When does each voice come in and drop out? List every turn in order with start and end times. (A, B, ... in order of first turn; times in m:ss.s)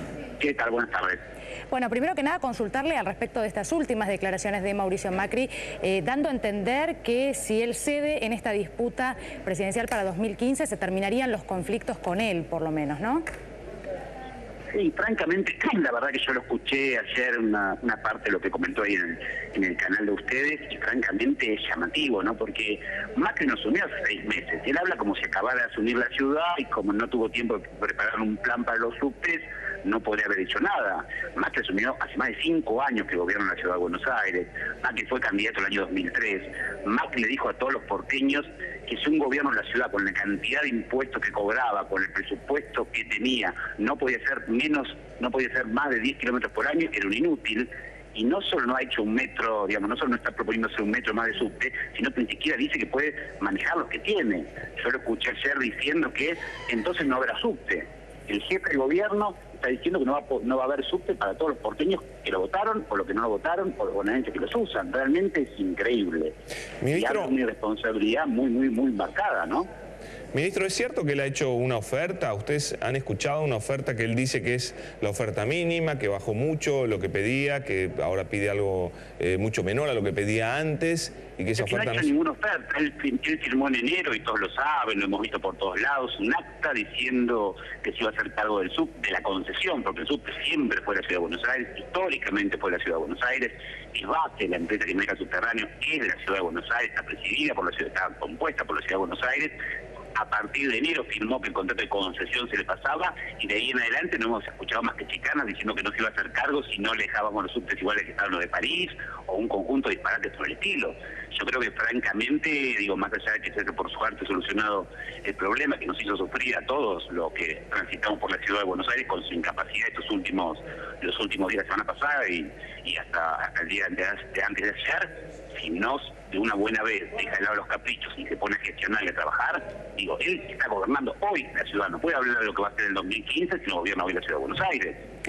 0:00.4-0:01.2 A
0:01.7-0:13.2 B
0:14.7-1:06.4 A
1:06.8-1:07.3 C
1:06.9-1:09.7 A
1:10.3-1:22.1 C
1:21.6-1:39.5 A
1:40.2-2:15.0 A